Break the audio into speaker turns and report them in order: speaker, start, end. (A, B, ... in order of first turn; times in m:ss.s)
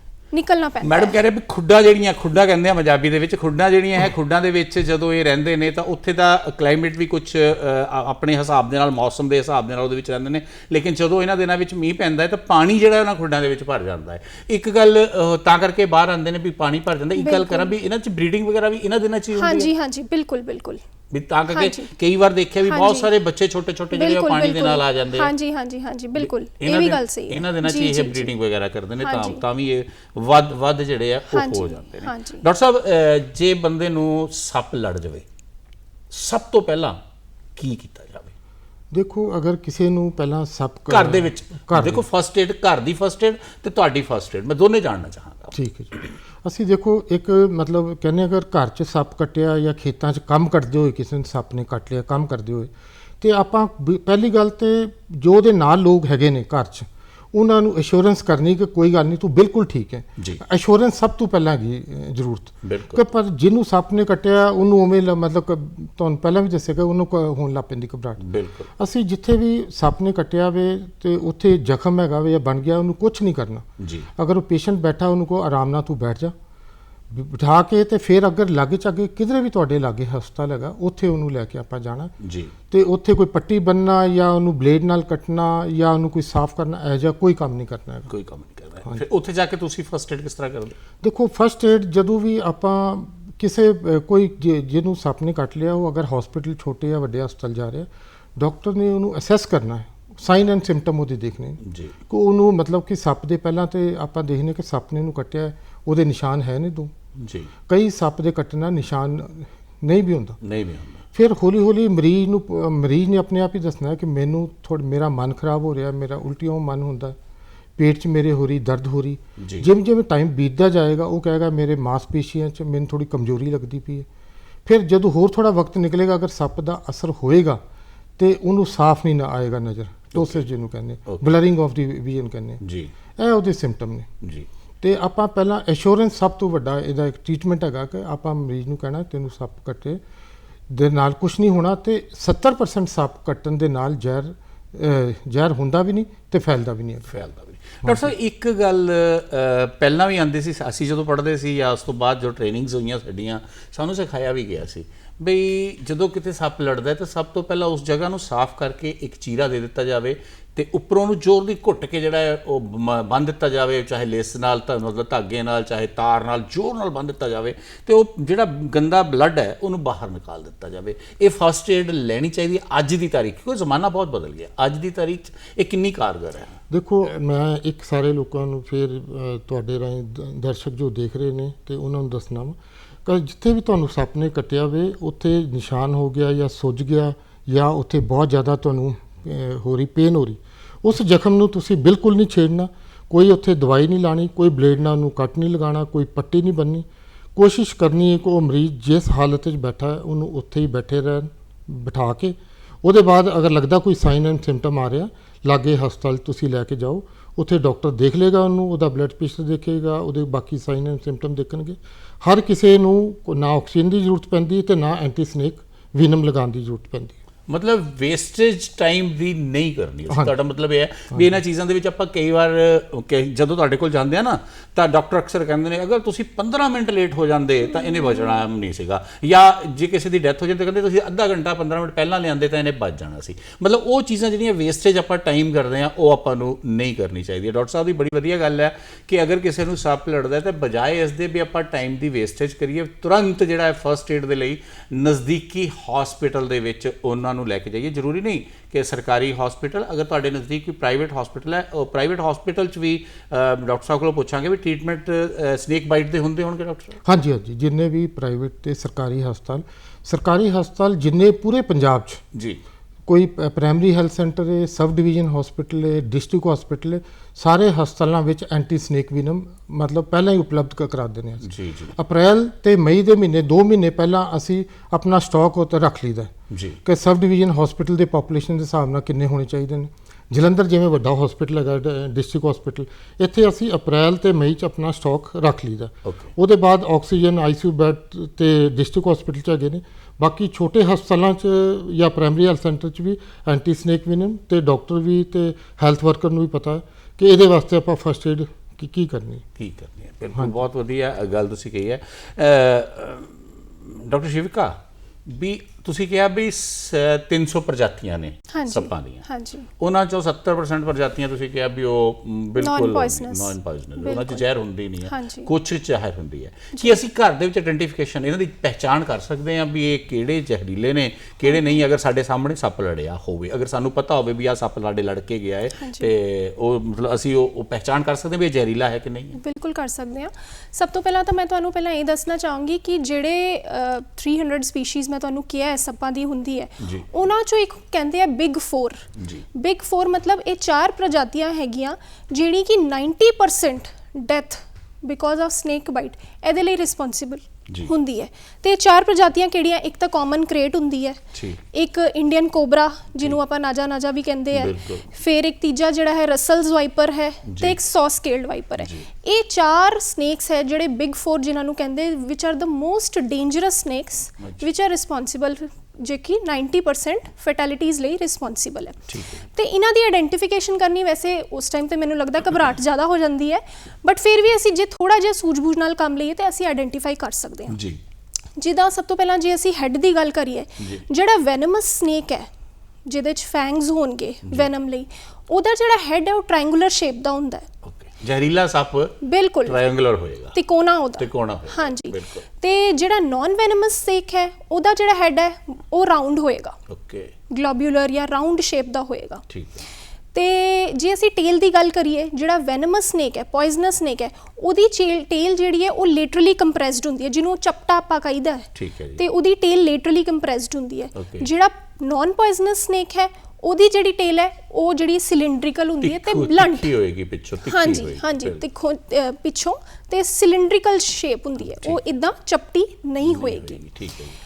0:00.3-0:01.2 A
0:00.8-0:19.7 B
0:17.2-0:17.7 A
0:19.4-0:20.8 A
0:21.1-0:25.3 B
0:21.5-0:21.9 A
0:22.7-0:23.1 A
0:23.9-0:28.3 A
0:26.2-0:35.2 B
0:29.0-0:29.4 A
0:31.3-0:32.4 A
0:36.1-0:37.0 B
0:37.6-0:38.3 B
0:38.9-0:42.0 C
0:40.9-0:45.5 B
0:45.5-1:08.2 C
1:02.6-1:03.0 B
1:08.2-1:08.7 B
1:08.8-1:13.7 C
1:13.8-1:14.1 B
1:14.2-1:16.3 C
1:17.1-1:22.1 C
1:22.2-1:22.5 B
1:22.7-1:28.1 C
1:28.1-1:30.8 B
1:31.0-1:46.9 C
1:41.6-1:41.9 B
1:47.2-1:47.5 B
1:47.7-1:50.4 C
1:50.4-1:51.0 B
1:51.1-1:57.2 C
1:57.8-2:04.1 C
1:59.4-1:59.7 B
2:04.6-2:07.6 C
2:08.2-2:12.6 C
2:10.1-2:10.4 B
2:11.1-2:11.4 B
2:12.6-2:12.9 B
2:13.2-2:14.1 C
2:14.2-2:14.5 B
2:14.8-2:20.0 C
2:20.7-2:27.1 C
2:27.1-2:56.6 B
2:27.8-2:28.1 C
2:56.7-3:37.2 C
3:37.5-4:17.0 B
3:47.8-3:48.3 A
4:17.0-4:22.2 C
4:22.3-4:22.6 B
4:23.1-4:36.3 C
4:31.4-4:32.0 B
4:36.5-4:36.8 B
4:36.8-4:59.4 C
4:46.0-4:46.3 B
4:59.6-5:09.2 B
5:08.5-5:09.7 A
5:09.8-5:29.4 B
5:12.6-5:14.4 A
5:15.0-5:15.5 A
5:21.5-5:21.8 A
5:25.8-5:26.1 A
5:29.4-6:17.8 A
5:36.8-5:37.1 B
5:39.2-5:39.4 B
5:51.3-5:51.6 B
5:54.5-5:55.1 B
5:57.5-5:57.8 B
5:58.8-5:59.1 B
6:09.1-6:09.4 B
6:17.7-6:18.0 B
6:18.6-6:22.5 A
6:23.1-6:27.7 A
6:27.8-6:30.6 B
6:29.2-6:29.8 A
6:30.5-6:36.8 A
6:31.2-6:32.4 B
6:36.9-6:37.3 B
6:37.5-6:39.4 A
6:39.5-6:39.9 B
6:40.3-6:56.9 A
6:48.8-6:49.2 B
6:51.2-6:51.5 B
6:56.0-6:58.6 B
6:57.6-7:03.8 A
7:01.7-7:02.0 B
7:03.2-7:04.4 B